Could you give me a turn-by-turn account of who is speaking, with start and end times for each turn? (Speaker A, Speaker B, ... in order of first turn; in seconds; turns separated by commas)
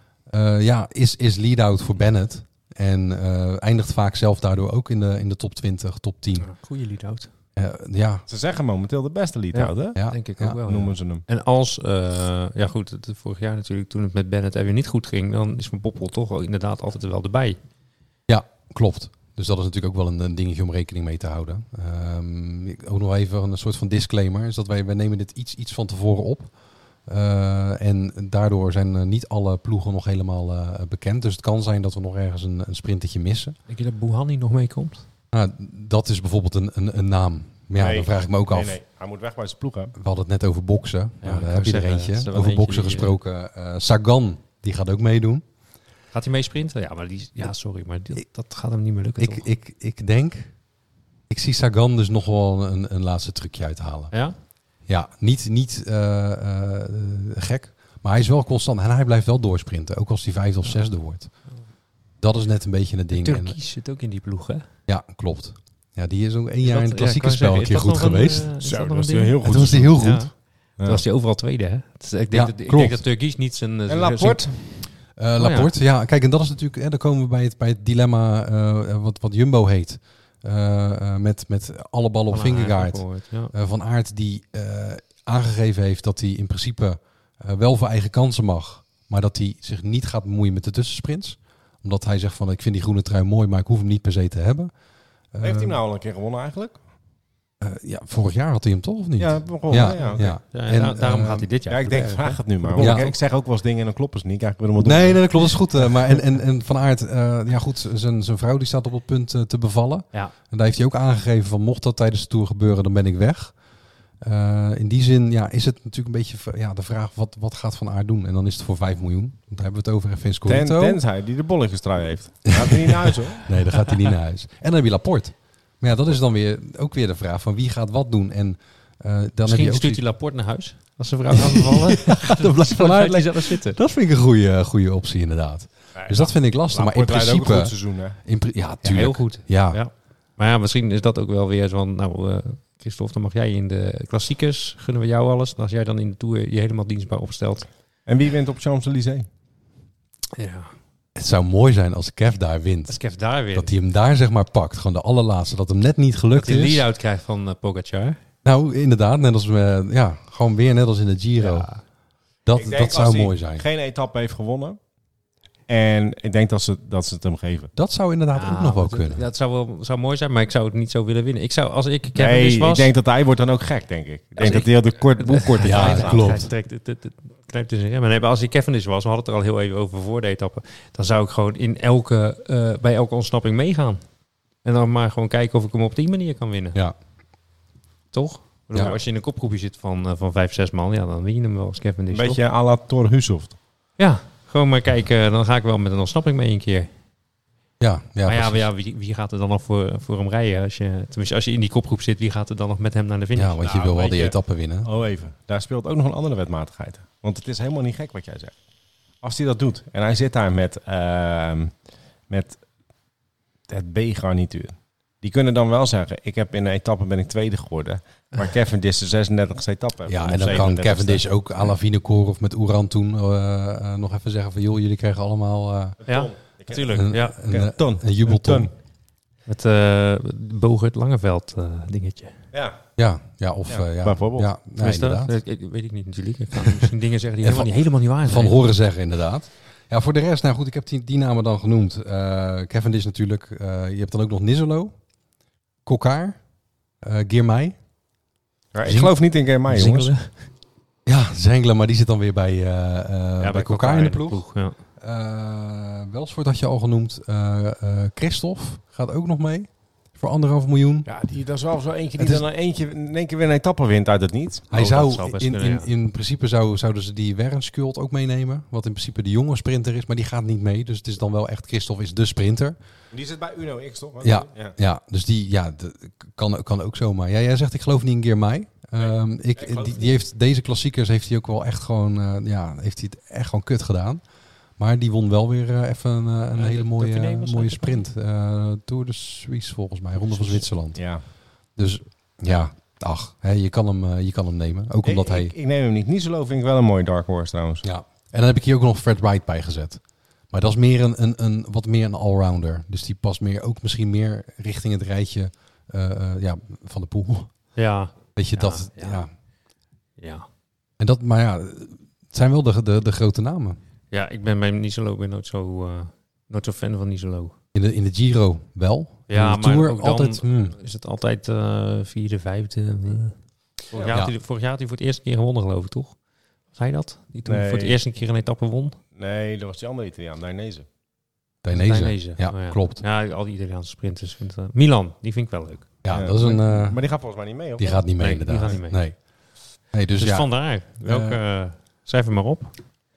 Speaker A: 0.3-6.5, Speaker B: 6.4-7.3, Speaker A: 7.6-8.2, Speaker C: 8.3-10.0, Speaker B: 9.5-17.6, Speaker A: 9.9-10.6, Speaker C: 10.7-11.2, Speaker A: 18.3-26.5, Speaker A: 27.1-33.6, Speaker B: 33.7-35.1, Speaker A: 35.3-38.8, Speaker C: 37.8-39.9, Speaker A: 40.0-45.4, Speaker B: 41.2-43.2, Speaker B: 46.1-49.5, Speaker A: 49.2-50.5, Speaker A: 51.3-54.2, Speaker B: 54.1-54.4, Speaker A: 54.9-61.3, Speaker A: 62.2-63.6, Speaker B: 63.1-64.6, Speaker A: 64.9-68.5, Speaker B: 66.6-74.7, Speaker C: 68.6-70.0, Speaker A: 69.4-70.3, Speaker C: 70.8-71.0, Speaker A: 72.3-73.0, Speaker C: 73.9-74.8, Speaker A: 75.1-94.7, Speaker B: 75.4-75.7, Speaker B: 82.3-83.5, Speaker A: 95.3-95.8, Speaker C: 95.4-96.8, Speaker A: 97.6-101.5, Speaker C: 99.2-100.3, Speaker B: 99.9-103.1, Speaker C: 101.7-106.2, Speaker A: 102.8-103.1, Speaker A: 104.8-113.5, Speaker A: 114.2-121.0, Speaker C: 120.5-123.5, Speaker A: 123.3-130.0, Speaker B: 129.4-133.8, Speaker A: 131.5-139.8, Speaker C: 135.9-138.2, Speaker B: 138.8-147.7, Speaker C: 148.1-149.3, Speaker B: 150.3-150.7, Speaker A: 151.2-156.9, Speaker B: 152.9-153.7, Speaker B: 156.3-158.2, Speaker A: 158.4-161.7, Speaker B: 161.4-161.8, Speaker A: 162.4-163.6, Speaker C: 162.6-164.8, Speaker C: 165.7-167.7, Speaker A: 167.8-169.3, Speaker B: 168.3-172.9, Speaker C: 172.2-176.3, Speaker B: 174.4-184.0, Speaker A: 175.6-176.5, Speaker B: 184.6-186.8, Speaker B: 188.1-192.4, Speaker C: 192.1-193.6, Speaker B: 194.0-196.9, Speaker A: 197.8-198.7, Speaker B: 198.2-203.6, Speaker A: 203.3-204.9, Speaker C: 203.7-208.6, Speaker C: 209.2-211.7, Speaker C: 212.3-212.6, Speaker C: 213.7-221.3, Speaker A: 220.1-226.0, Speaker C: 226.0-228.7, Speaker B: 226.1-226.3, Speaker A: 226.8-228.7, Speaker B: 227.1-227.4, Speaker B: 229.5-232.3, Speaker C: 232.5-232.8, Speaker A: 233.0-235.4, Speaker C: 233.7-234.5, Speaker B: 234.8-238.6, Speaker A: 237.4-245.0, Speaker A: 245.8-246.4, Speaker A: 247.0-247.8, Speaker C: 248.7-250.1, Speaker A: 248.8-249.1, Speaker B: 249.7-250.5, Speaker A: 251.1-254.5, Speaker B: 253.4-254.8, Speaker A: 255.0-261.1, Speaker C: 261.1-264.7, Speaker A: 262.2-262.4, Speaker A: 264.7-272.8, Speaker B: 264.7-265.9, Speaker C: 273.1-274.8, Speaker A: 274.2-284.2, Speaker C: 279.0-280.2, Speaker A: 284.8-291.1, Speaker B: 286.6-288.0, Speaker C: 290.9-291.2, Speaker A: 291.8-295.5, Speaker C: 295.0-297.8, Speaker A: 297.8-307.5, Speaker B: 307.8-309.3, Speaker A: 308.4-309.3, Speaker B: 310.2-310.4, Speaker A: 311.0-313.8, Speaker B: 314.1-317.5, Speaker A: 317.7-320.8, Speaker B: 319.3-323.4, Speaker B: 323.9-326.2, Speaker C: 323.9-324.2, Speaker B: 326.7-329.0, Speaker C: 327.4-328.0, Speaker C: 329.2-330.8, Speaker A: 331.6-333.0, Speaker B: 331.7-335.9, Speaker A: 336.0-337.0, Speaker C: 336.1-338.1, Speaker A: 337.8-339.2, Speaker B: 338.2-339.0, Speaker A: 339.9-340.5, Speaker B: 340.2-342.7, Speaker A: 341.0-341.4